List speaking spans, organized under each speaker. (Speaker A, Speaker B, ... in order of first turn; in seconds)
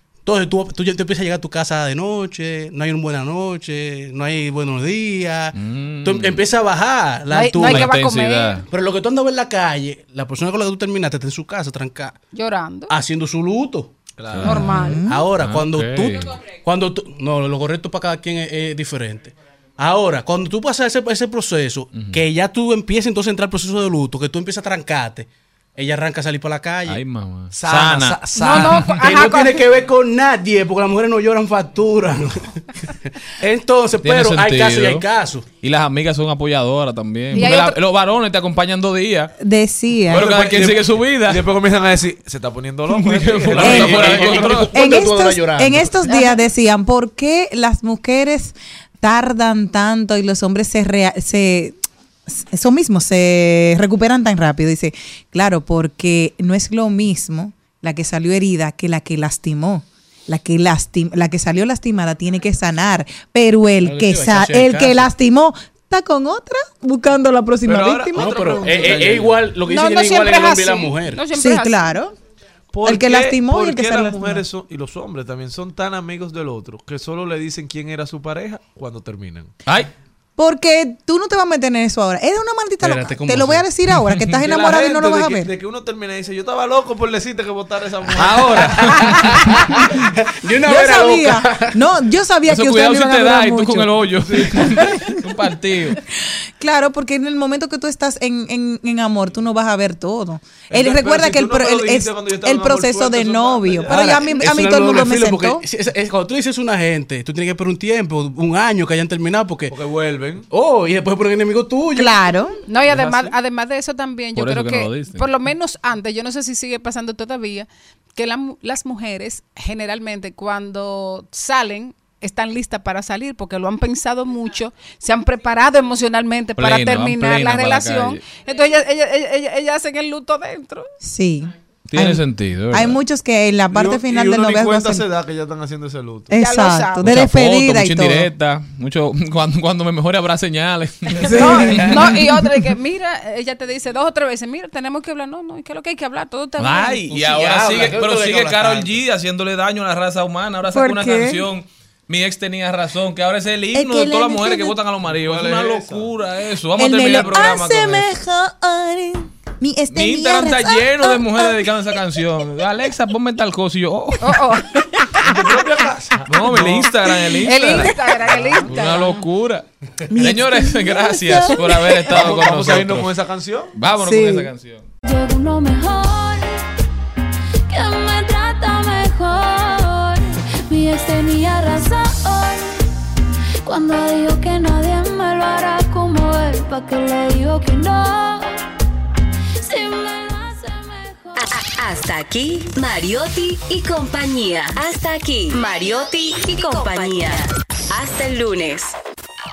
Speaker A: 0.2-7.9, 8.7-12.2, 12.9-14.0, 15.1-27.0, 28.2-35.5, 43.7-46.0, 63.8-65.1, 68.2-71.2, 82.8-83.7, 88.8-91.8, 103.9-109.7, 110.5-112.1, 147.1-148.9
Speaker B: 5.5-6.4, 7.6-8.7, 14.3-14.8, 15.4-16.4, 21.9-22.2, 26.9-28.9, 34.0-35.1, 35.6-39.3, 40.1-41.5, 42.9-44.8, 67.7-69.3, 88.2-89.6, 92.5-96.0, 114.4-115.3, 126.6-128.2, 131.9-133.0, 137.1-141.9, 146.6-158.1, 159.9-164.4, 166.2-167.9, 168.7-173.1, 173.7-174.9
Speaker C: 7.3-8.6, 12.3-12.9, 14.4-15.0, 28.4-29.6, 37.3-37.8, 46.0-46.4, 69.7-71.9, 112.7-130.9, 136.4-137.1, 141.2-147.1, 164.2-165.4, 167.5-169.3
Speaker D: 14.2-14.6, 27.6-28.6, 40.1-44.8, 72.7-79.5, 84.4-89.0, 94.2-94.6, 100.7-104.4, 109.7-110.5, 112.9-113.2, 133.7-136.4, 155.0-156.1, 165.4-166.9, 168.3-168.6, 172.1-173.7
Speaker E: 14.5-15.3, 39.4-40.3, 43.6-44.1, 44.7-69.1, 71.3-72.1, 72.8-74.5, 80.4-85.5, 90.6-95.2, 96.3-105.6, 112.0-112.6, 131.0-135.1, 136.3-138.3, 141.3-142.5, 150.7-151.5, 153.7-154.8, 156.8-161.7, 167.7-168.1, 170.1-172.0, 174.0-174.5
Speaker F: 175.1-176.5, 177.7-182.7, 183.6-188.5, 189.6-191.5
Speaker G: 191.4-199.0